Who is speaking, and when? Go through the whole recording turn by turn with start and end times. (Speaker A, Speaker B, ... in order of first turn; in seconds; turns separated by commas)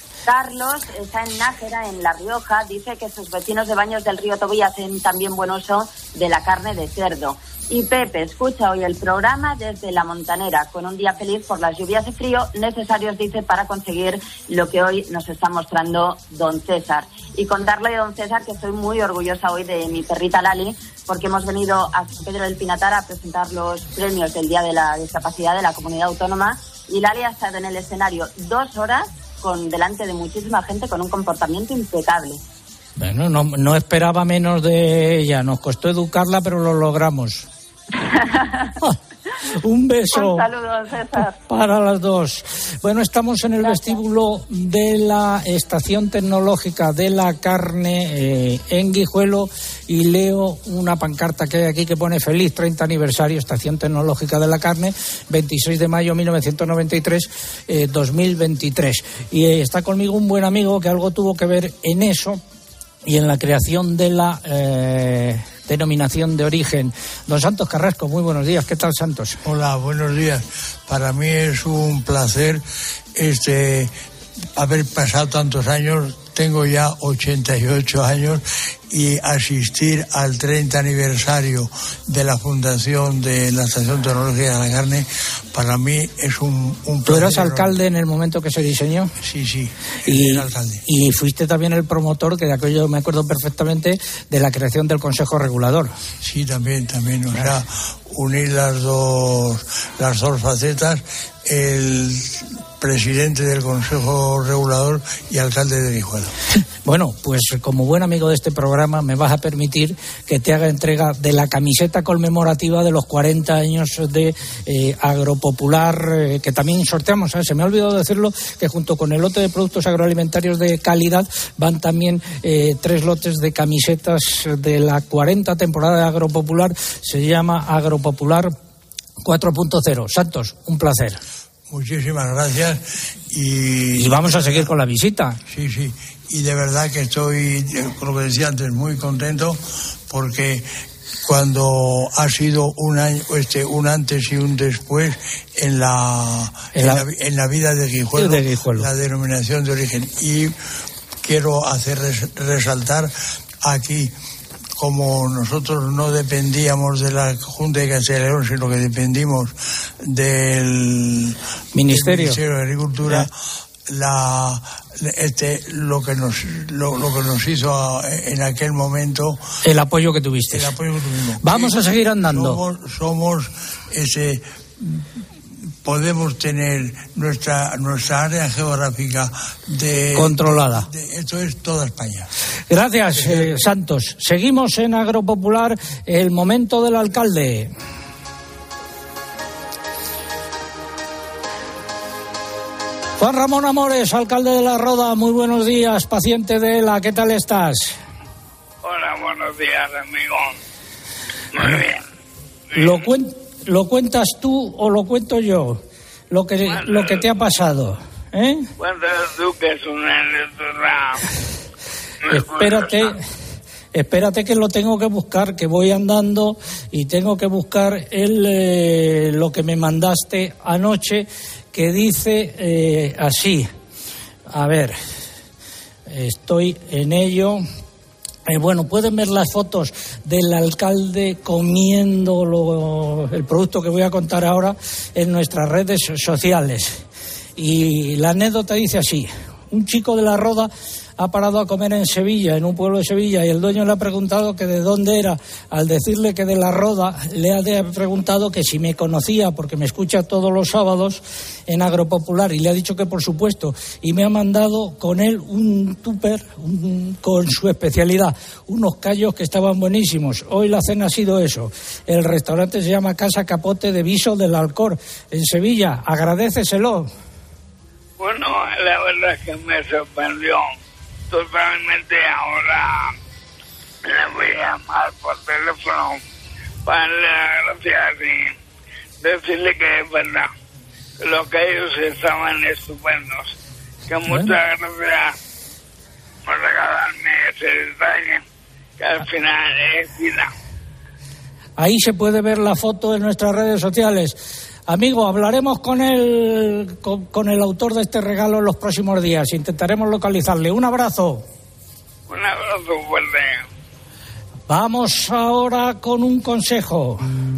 Speaker A: 0.3-32.4, Speaker B: 33.0-37.5, Speaker A: 38.0-38.7, Speaker B: 39.5-40.5, Speaker A: 40.1-41.4, Speaker B: 41.5-62.4, Speaker B: 63.0-69.4, Speaker C: 69.5-72.6, Speaker C: 73.2-73.9, Speaker C: 74.6-87.8, Speaker B: 87.1-89.1, Speaker C: 89.2-90.8, Speaker B: 90.1-95.9, Speaker C: 96.2-106.3, Speaker B: 106.8-128.5, Speaker B: 129.2-131.2, Speaker C: 131.7-134.7, Speaker B: 134.0-135.4, Speaker C: 135.5-140.7, Speaker C: 141.2-150.5, Speaker B: 146.7-147.1, Speaker B: 148.2-148.9, Speaker C: 151.2-153.1, Speaker C: 153.6-154.1, Speaker C: 154.8-159.5, Speaker C: 160.1-161.4, Speaker B: 161.8-162.4, Speaker C: 161.9-163.3, Speaker C: 163.9-169.4, Speaker B: 169.6-170.7, Speaker C: 170.5-175.0, Speaker B: 171.4-172.6, Speaker C: 175.8-182.3, Speaker B: 180.2-180.9, Speaker B: 182.7-187.7, Speaker C: 183.1-183.7, Speaker B: 193.2-198.0, Speaker D: 198.8-200.6, Speaker D: 201.5-202.0, Speaker B: 202.8-208.7, Speaker D: 206.7-207.3, Speaker D: 208.8-211.2, Speaker D: 212.3-213.1, Speaker B: 212.3-213.2, Speaker B: 213.9-223.7, Speaker B: 224.5-225.0, Speaker B: 226.1-227.6, Speaker B: 228.5-237.0, Speaker B: 237.6-267.1, Speaker D: 268.2-270.8, Speaker D: 271.3-273.1, Speaker D: 274.1-276.2, Speaker D: 276.9-278.6, Speaker D: 279.2-280.5, Speaker D: 281.2-283.5, Speaker D: 284.1-285.4, Speaker B: 284.3-284.5, Speaker D: 286.5-288.4, Speaker D: 289.0-290.5, Speaker B: 291.8-294.4, Speaker B: 294.9-301.5, Speaker D: 302.3-303.6, Speaker B: 304.7-307.2